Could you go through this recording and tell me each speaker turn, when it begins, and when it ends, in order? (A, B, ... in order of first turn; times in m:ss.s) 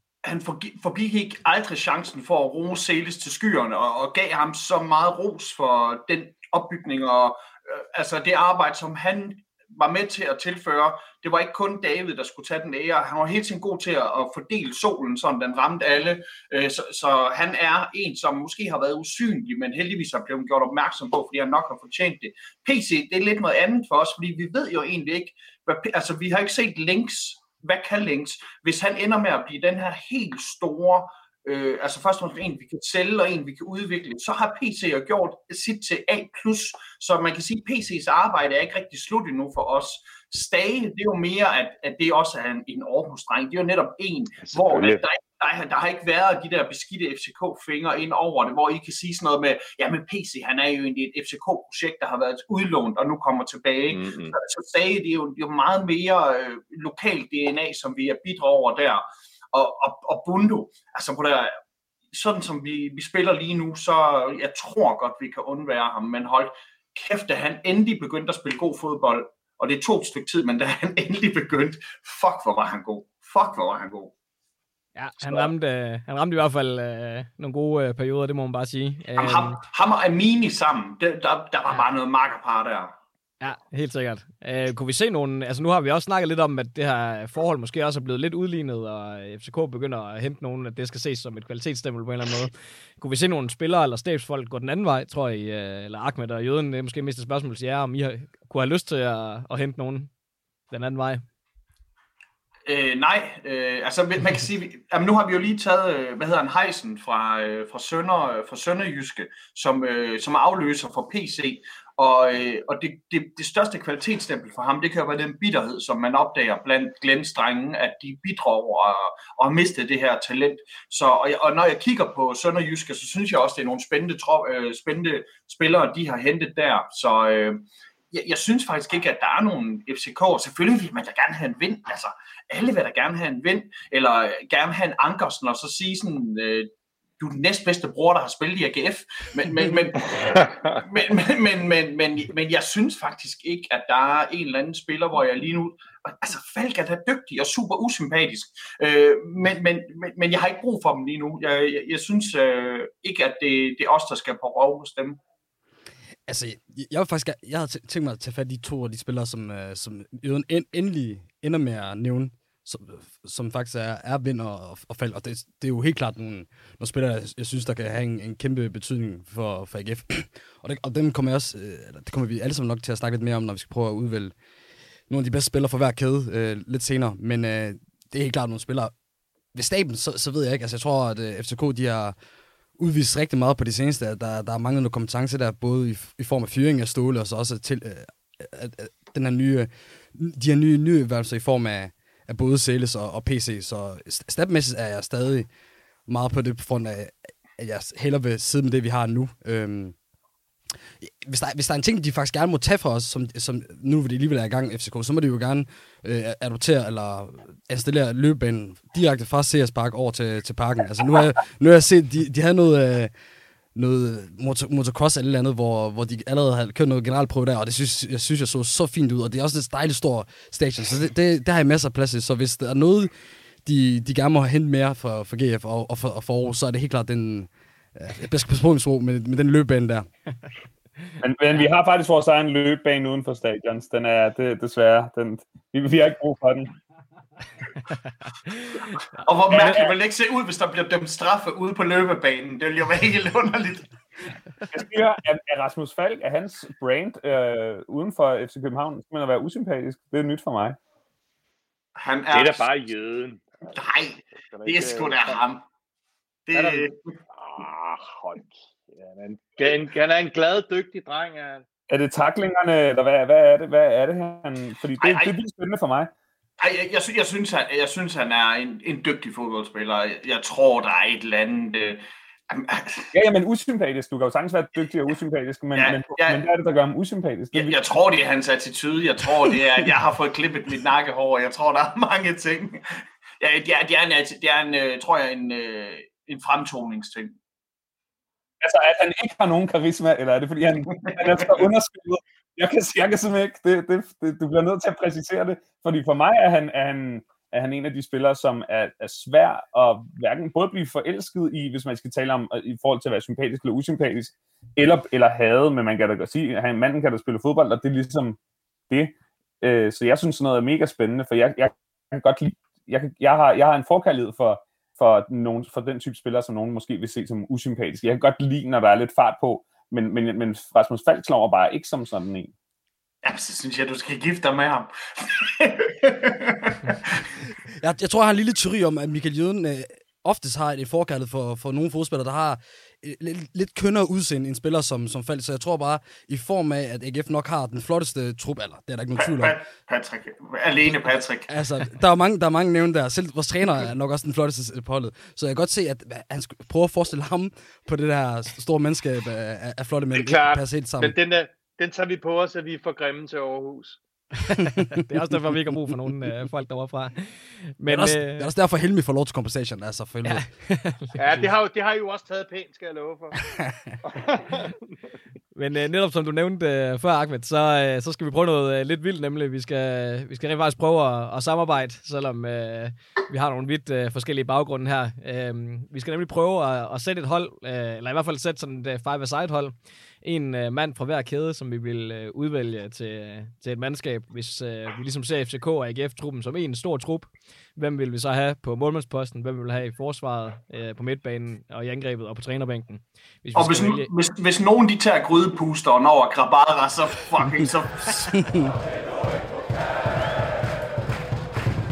0:00.2-1:01.5 A
0:44.5-0:45.0 B
0:53.9-0:54.4 B
1:02.1-1:14.1 A
1:15.0-1:19.6 C
1:15.2-1:15.5 A
1:19.2-1:22.9 A
1:23.4-1:40.1 C
1:40.7-1:41.2 C
1:42.7-2:35.2 A
2:20.2-2:20.8 B
2:36.3-2:54.3 D
2:55.1-2:58.9 D
2:59.5-3:02.2 D
3:02.8-3:15.5 D
3:16.1-3:20.0 D
3:21.0-3:33.1 D
3:33.8-3:43.1 D
3:43.6-3:50.1 D
3:51.2-3:56.8 E
3:59.2-4:03.9 A
3:59.5-4:00.0 E
4:04.7-4:10.8 E
4:12.0-4:12.7 A
4:12.3-4:13.7 B
4:13.7-4:15.6 A
4:14.4-4:15.4 B
4:16.5-4:17.2 A
4:16.5-4:21.6 B
4:21.9-4:26.1 E
4:25.0-4:25.3 A
4:26.6-4:33.1 A
4:33.1-4:37.8 E
4:35.7-4:36.4 A
4:37.5-4:47.4 A
4:48.6-5:08.4 E
4:50.9-4:51.5 A
5:08.9-5:22.5 E
5:23.2-5:27.3 A
5:27.8-5:39.6 D
5:39.2-5:41.5 A
5:41.5-5:51.2 D
5:50.2-5:54.0 B
5:54.5-5:58.5 C
5:55.3-5:55.7 D
5:57.9-6:00.5 D
6:00.2-6:01.5 C
6:01.2-6:03.4 B
6:04.1-6:04.7 B
6:05.5-6:34.1 C
6:33.5-6:38.4 A
6:38.4-6:38.7 D